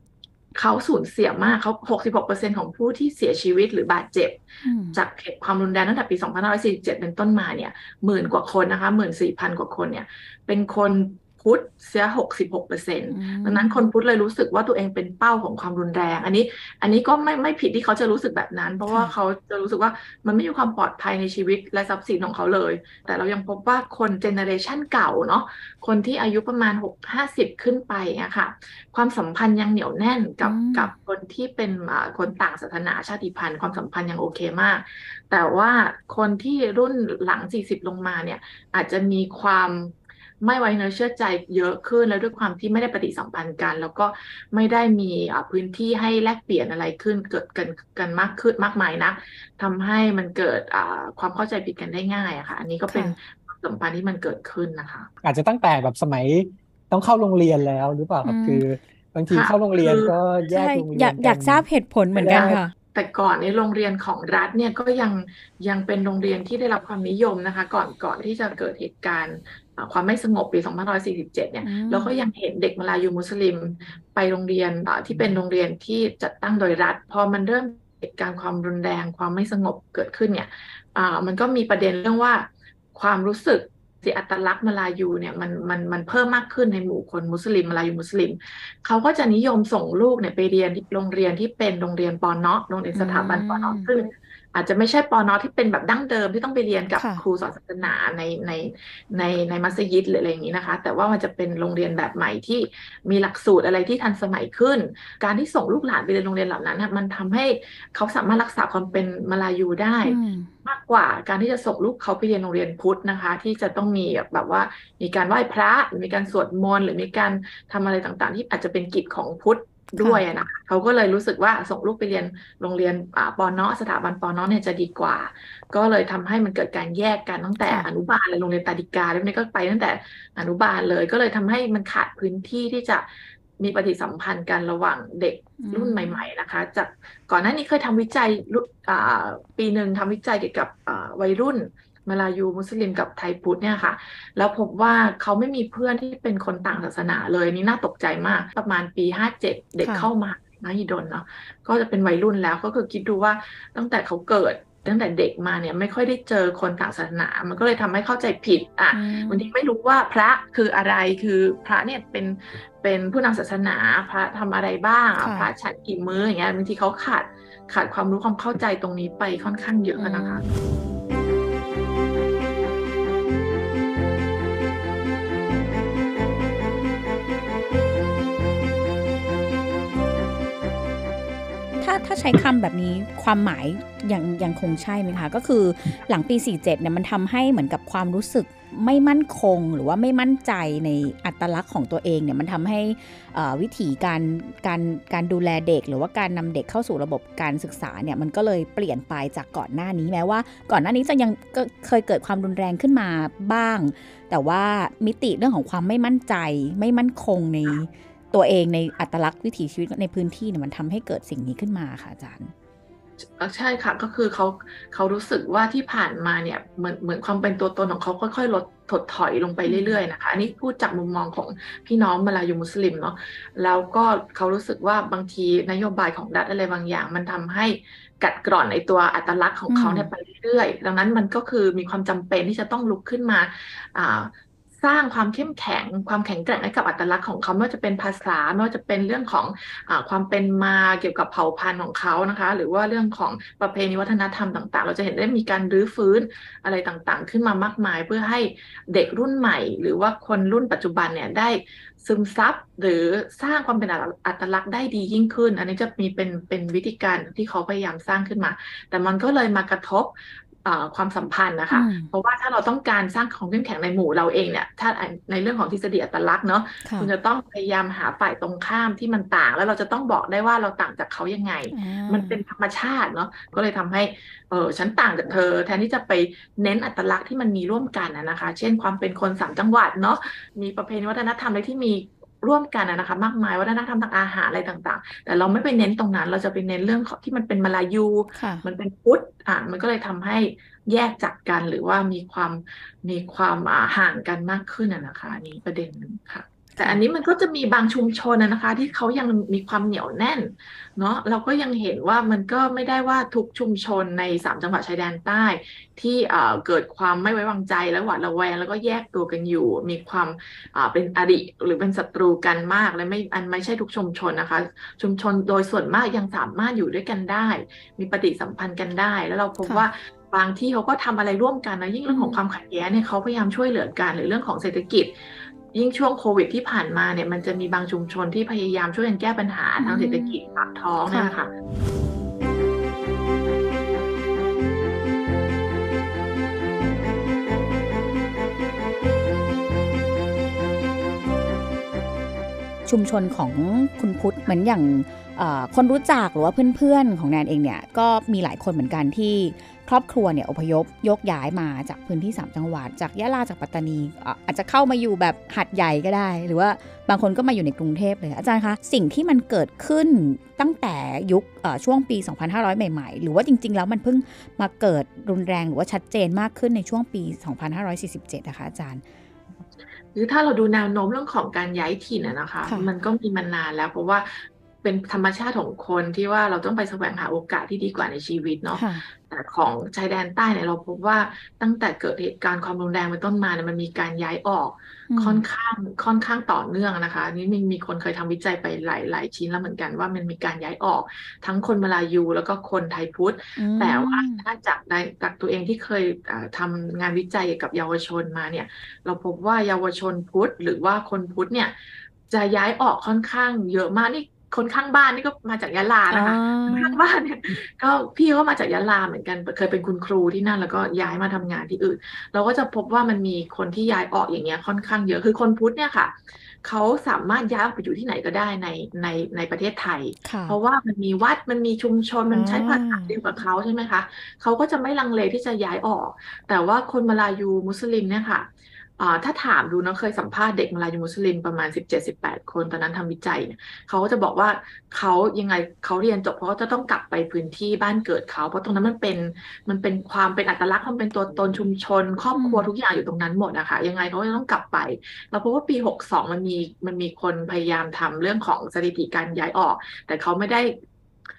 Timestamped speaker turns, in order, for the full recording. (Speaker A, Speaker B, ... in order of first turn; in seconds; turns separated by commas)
Speaker A: 0.5-55.1, Speaker B: 4.6-5.0, Speaker B: 13.1-13.8, Speaker B: 18.9-19.1, Speaker B: 30.4-30.9, Speaker B: 52.9-53.1, Speaker C: 55.2-62.6, Speaker B: 58.2-58.6, Speaker A: 59.3-60.1, Speaker B: 60.5-62.7, Speaker A: 62.2-133.1, Speaker B: 71.6-72.1, Speaker B: 92.9-93.9, Speaker B: 97.0-97.2, Speaker B: 110.0-110.5, Speaker B: 120.0-120.2, Speaker A: 133.6-170.4, Speaker B: 135.6-136.2, Speaker B: 149.8-150.1, Speaker B: 158.9-159.5, Speaker B: 165.2-165.5, Speaker B: 170.0-170.4, Speaker B: 181.8-212.5, Speaker A: 213.2-325.2, Speaker B: 219.7-220.0, Speaker B: 229.7-230.1, Speaker B: 261.7-262.1, Speaker B: 266.8-267.1, Speaker B: 271.7-272.4, Speaker B: 288.3-288.6, Speaker B: 322.1-322.4, Speaker A: 325.7-331.5, Speaker B: 329.8-330.4, Speaker B: 342.9-369.0, Speaker A: 370.1-401.7, Speaker B: 372.6-372.9, Speaker B: 378.7-379.0, Speaker B: 385.1-385.4, Speaker B: 393.6-394.4, Speaker A: 402.3-428.5, Speaker B: 406.1-407.0, Speaker B: 420.2-420.6, Speaker B: 422.3-423.1, Speaker A: 429.0-450.8, Speaker B: 442.3-442.7